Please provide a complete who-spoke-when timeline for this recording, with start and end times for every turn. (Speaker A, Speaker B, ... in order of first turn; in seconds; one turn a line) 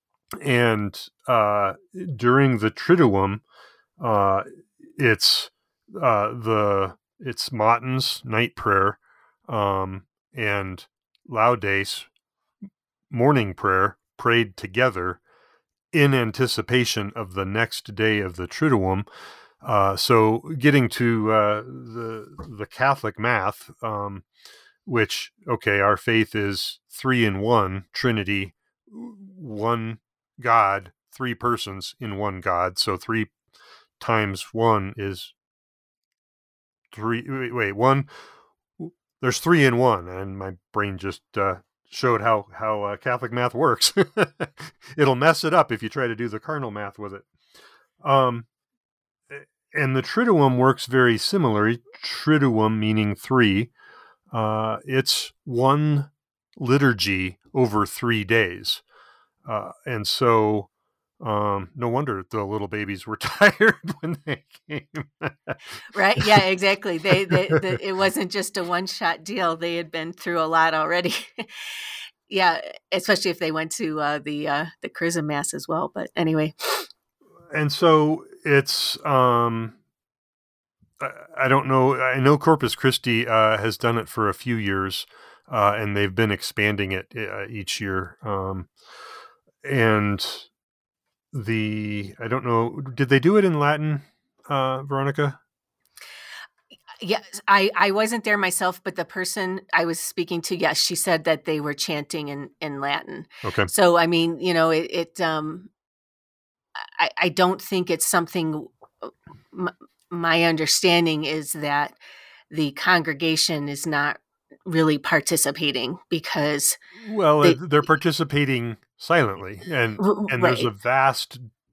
Speaker A: 0.4-3.4
Speaker A: 4.0-12.1
Speaker A: 13.1-15.2
Speaker A: 15.9-19.1
Speaker A: 19.6-24.2
Speaker A: 24.9-33.3
Speaker A: 34.0-35.3
Speaker A: 36.9-38.1
Speaker A: 38.8-47.3
Speaker A: 48.0-48.5
Speaker A: 49.3-53.7
Speaker A: 54.3-58.8
Speaker A: 59.5-60.7
Speaker A: 61.2-65.6
Speaker B: 65.9-76.9
Speaker A: 77.5-79.8
Speaker A: 81.0-88.7
Speaker A: 89.6-90.5
Speaker A: 91.3-95.4
Speaker B: 97.0-105.7
Speaker A: 103.4-103.7
Speaker B: 106.8-112.0
Speaker B: 112.5-116.8
Speaker A: 117.0-121.5
Speaker B: 120.0-120.7